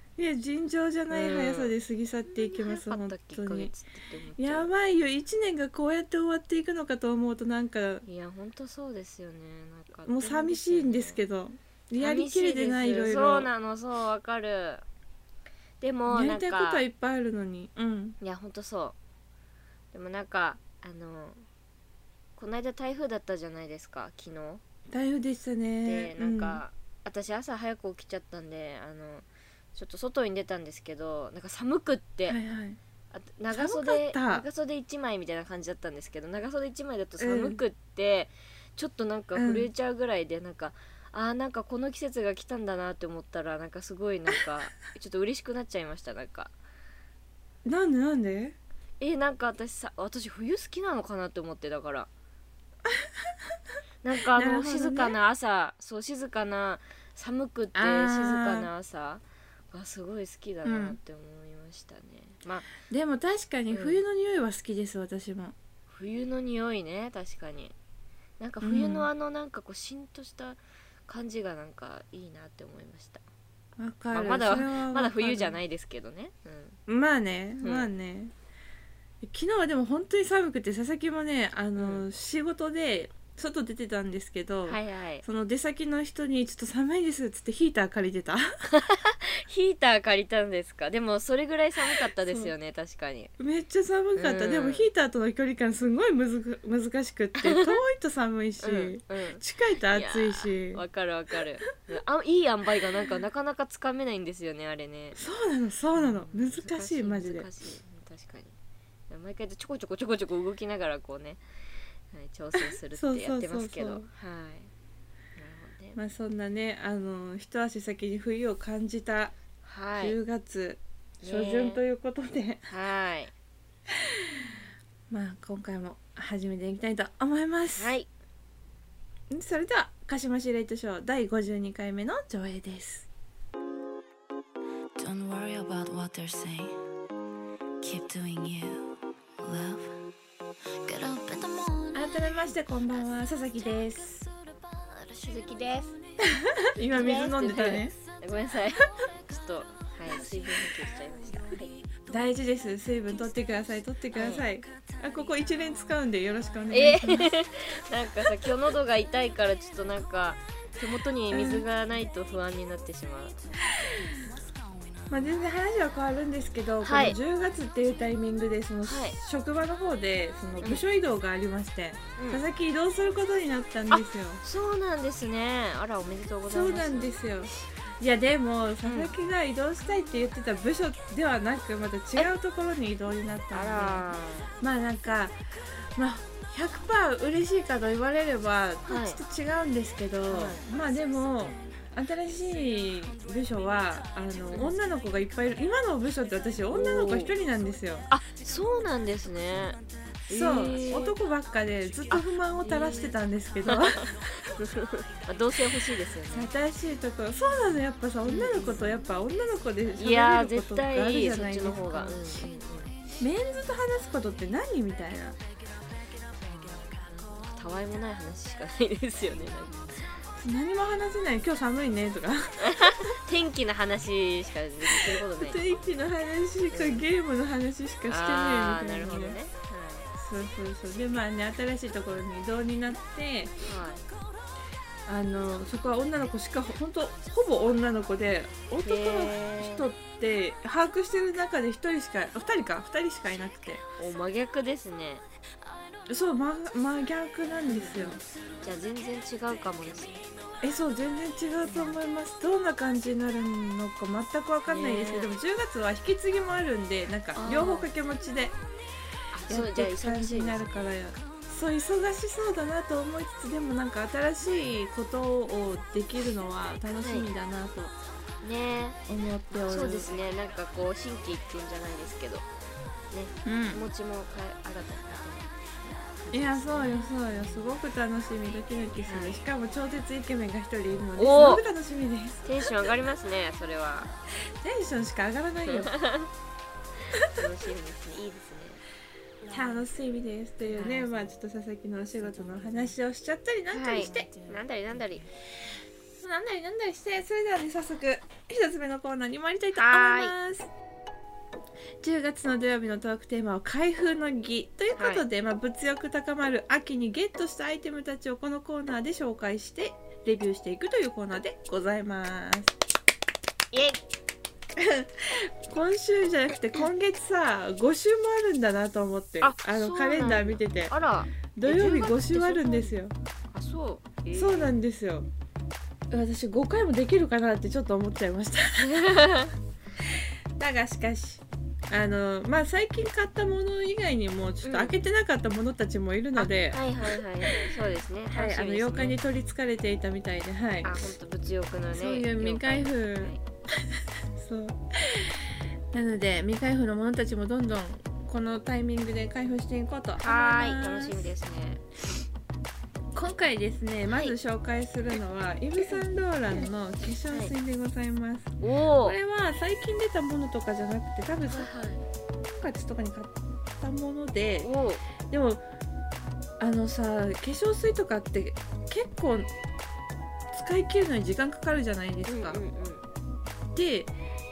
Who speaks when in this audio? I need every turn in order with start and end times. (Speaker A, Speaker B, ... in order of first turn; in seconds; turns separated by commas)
Speaker A: 0.2-3.7, Speaker B: 1.1-1.8, Speaker B: 2.3-4.7, Speaker A: 4.4-8.0, Speaker B: 8.0-11.2, Speaker A: 10.1-13.5, Speaker B: 12.0-14.8, Speaker B: 15.8-16.8, Speaker A: 16.1-18.2, Speaker B: 18.2-18.9, Speaker B: 19.9-21.4, Speaker B: 22.4-24.6, Speaker A: 24.9-26.6, Speaker B: 25.9-32.4, Speaker A: 32.3-32.8, Speaker B: 33.1-46.5, Speaker A: 33.5-34.5, Speaker A: 37.2-37.6, Speaker A: 39.4-39.7, Speaker A: 47.6-48.6, Speaker B: 49.0-52.1, Speaker B: 54.0-62.7, Speaker A: 54.3-55.1, Speaker A: 57.8-58.7, Speaker A: 60.6-61.0, Speaker A: 62.9-65.5, Speaker B: 63.7-64.0, Speaker B: 65.9-67.7, Speaker B: 68.4-73.2, Speaker A: 68.6-69.1, Speaker A: 73.8-75.6, Speaker B: 74.1-76.8, Speaker A: 76.9-78.3, Speaker B: 77.6-77.9, Speaker A: 79.2-88.5, Speaker B: 81.8-82.0, Speaker B: 84.7-85.2, Speaker B: 88.7-93.3, Speaker A: 92.2-92.5, Speaker A: 93.4-100.8, Speaker B: 94.2-94.9, Speaker B: 97.4-97.7, Speaker B: 98.6-105.2, Speaker A: 105.2-107.5, Speaker B: 106.0-108.5, Speaker B: 109.1-111.4, Speaker B: 112.1-114.7, Speaker A: 112.6-114.1, Speaker B: 115.4-116.0, Speaker A: 116.0-119.3, Speaker B: 119.7-120.2, Speaker A: 120.0-122.7, Speaker B: 121.2-121.8, Speaker B: 122.7-123.3, Speaker A: 125.1-127.9, Speaker B: 127.8-128.1, Speaker A: 129.3-133.1, Speaker C: 135.0-136.8, Speaker C: 137.8-140.1, Speaker C: 140.7-142.0, Speaker A: 141.9-144.3, Speaker B: 145.1-145.9, Speaker A: 146.3-147.9, Speaker B: 146.9-151.7, Speaker A: 152.1-157.3, Speaker B: 154.2-154.4, Speaker B: 156.7-163.4, Speaker A: 161.3-161.7, Speaker A: 165.1-174.4, Speaker B: 166.8-167.2, Speaker B: 168.8-169.2, Speaker B: 172.2-172.4, Speaker B: 173.9-177.2, Speaker A: 176.5-184.1, Speaker B: 178.9-179.1, Speaker B: 183.5-184.5, Speaker A: 184.6-185.4, Speaker A: 186.0-198.1, Speaker B: 188.9-189.2, Speaker B: 190.3-190.6, Speaker B: 196.7-197.3, Speaker B: 198.1-201.2, Speaker A: 200.3-204.0, Speaker B: 202.1-203.1, Speaker B: 203.7-206.5, Speaker A: 206.3-212.2, Speaker B: 208.3-209.0, Speaker B: 210.0-213.0, Speaker A: 213.2-215.4, Speaker B: 216.4-220.1, Speaker A: 220.4-223.1, Speaker B: 222.6-225.6, Speaker A: 225.0-229.4, Speaker B: 226.7-227.0, Speaker B: 228.1-230.1, Speaker A: 230.2-233.6, Speaker B: 233.7-234.1, Speaker A: 235.1-243.8, Speaker B: 238.8-239.9, Speaker B: 244.0-245.2, Speaker A: 246.1-248.2, Speaker B: 247.7-250.2, Speaker A: 250.6-258.6, Speaker B: 251.7-252.0, Speaker B: 254.7-255.3, Speaker B: 257.4-257.9, Speaker B: 259.3-260.7, Speaker A: 259.5-267.9, Speaker B: 268.4-269.0, Speaker A: 269.1-270.1, Speaker B: 269.7-272.5, Speaker B: 273.1-277.1, Speaker A: 273.5-273.8, Speaker A: 276.3-282.4, Speaker B: 279.1-279.4, Speaker B: 281.2-281.6, Speaker B: 282.4-284.1, Speaker A: 284.6-285.9, Speaker B: 285.6-286.3, Speaker B: 287.3-288.8, Speaker A: 289.5-294.3, Speaker B: 290.8-291.3, Speaker B: 292.3-292.8, Speaker B: 293.7-295.3, Speaker A: 296.2-300.7, Speaker B: 299.7-300.3, Speaker A: 302.0-312.7, Speaker B: 305.0-305.2, Speaker B: 313.7-314.0, Speaker A: 314.8-320.9, Speaker B: 319.4-322.9, Speaker A: 321.6-323.1, Speaker B: 323.5-324.8, Speaker A: 324.3-325.3, Speaker A: 326.1-329.1, Speaker B: 328.8-329.5, Speaker A: 330.6-337.7, Speaker B: 334.6-334.9, Speaker B: 336.4-339.2, Speaker A: 338.3-341.2, Speaker B: 340.8-343.4, Speaker A: 341.9-343.3, Speaker A: 344.4-351.3, Speaker B: 350.2-351.8, Speaker A: 353.1-361.7, Speaker B: 355.8-356.7, Speaker B: 358.6-359.2, Speaker B: 361.5-362.0, Speaker A: 362.6-364.7, Speaker B: 364.6-365.0, Speaker A: 365.3-365.6, Speaker A: 366.6-369.5, Speaker A: 370.5-372.6, Speaker B: 372.3-373.0, Speaker A: 373.8-374.1